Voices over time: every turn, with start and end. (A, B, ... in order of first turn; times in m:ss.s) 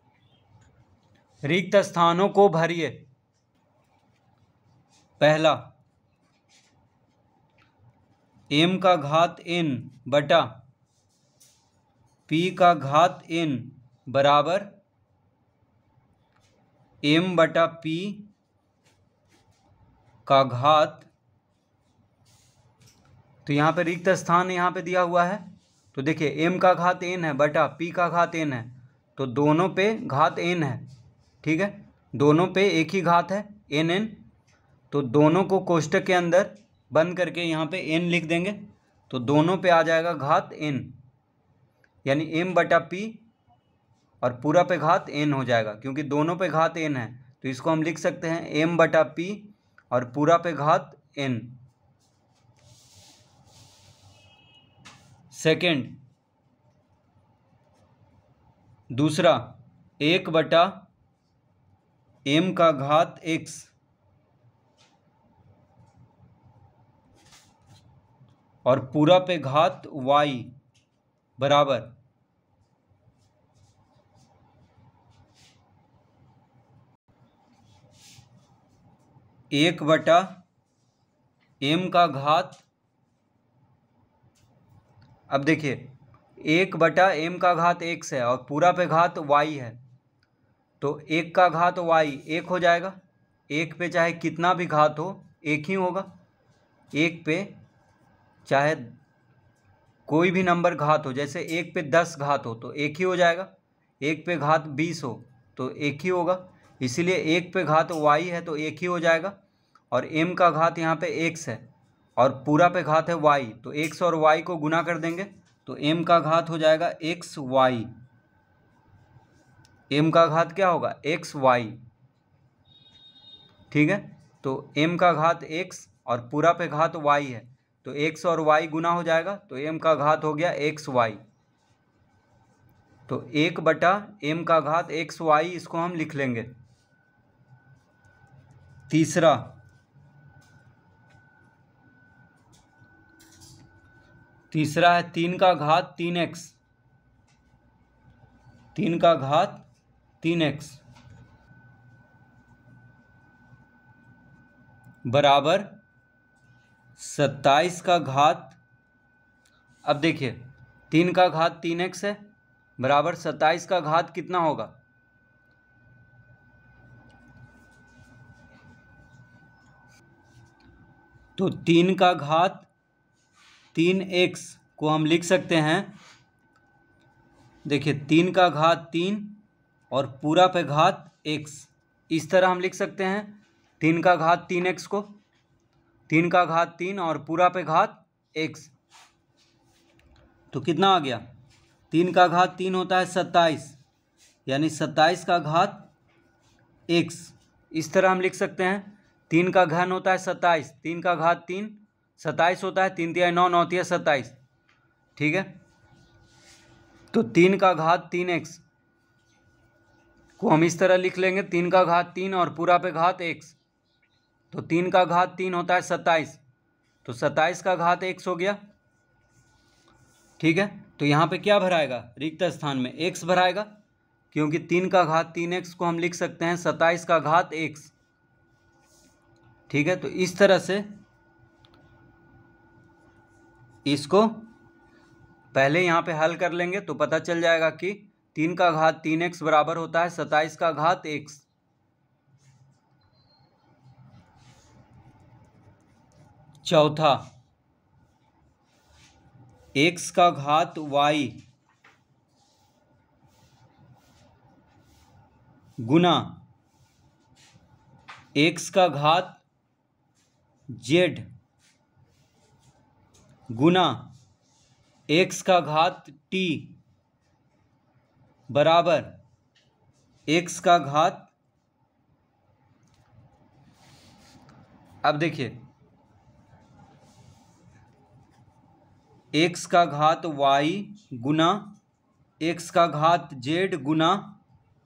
0:01.4-0:03.0 A
0:05.2-0:05.6 A
0:08.5-0:10.5 A
0:12.3-0:14.7 A
0:17.0-0:18.3 A
0:20.2-0:21.1 A
0:23.4-0:30.8 A
0:31.4-0:34.2 A
0:34.9-0:40.9 A
0:42.0-0:43.2 A
0:44.2-0:51.6 A
0:55.3-0:56.0 A
0:58.9-1:00.8 A
1:02.2-1:03.7 A
1:08.6-1:10.5 A
1:11.4-1:11.9 A
1:19.5-1:20.4 A
1:21.6-1:22.6 A
1:25.3-1:29.8 A
1:30.8-1:33.0 A
1:33.5-1:36.1 A
1:36.9-1:37.5 A
1:38.4-1:38.9 A
1:40.1-1:43.5 A
1:44.0-1:49.3 A
1:49.9-1:51.6 A
1:52.2-1:57.9 A
1:59.9-2:01.8 A
2:03.7-2:11.2 A
2:13.1-2:16.5 A
2:18.9-2:19.5 A
2:24.5-2:26.6 A
2:28.7-2:29.6 A
2:30.2-2:30.8 A
2:35.0-2:35.7 A
2:37.0-2:38.6 A
2:39.8-2:42.2 A
2:42.8-2:44.7 A
2:51.4-2:52.7 A
2:53.7-2:55.9 A
2:57.6-2:59.4 A
2:59.9-3:05.1 A
3:06.1-3:08.7 A
3:10.5-3:11.2 A
3:11.9-3:13.8 A
3:14.4-3:15.9 A
3:16.9-3:24.4 A
3:25.2-3:25.5 A
3:27.1-3:28.6 A
3:30.4-3:33.6 A
3:34.5-3:36.4 A
3:37.0-3:38.6 A
3:40.4-3:43.7 A
3:44.3-3:47.9 A
3:49.7-3:50.9 A
3:53.8-3:54.5 A
3:55.5-4:01.4 A
4:06.6-4:07.2 A
4:09.7-4:11.4 A
4:15.8-4:16.4 A
4:18.4-4:19.4 A
4:20.7-4:21.3 A
4:23.5-4:24.1 A
4:25.1-4:26.7 A
4:28.5-4:29.1 A
4:30.3-4:31.3 A
4:35.0-4:35.5 A
4:39.3-4:41.8 A
4:42.4-4:44.4 A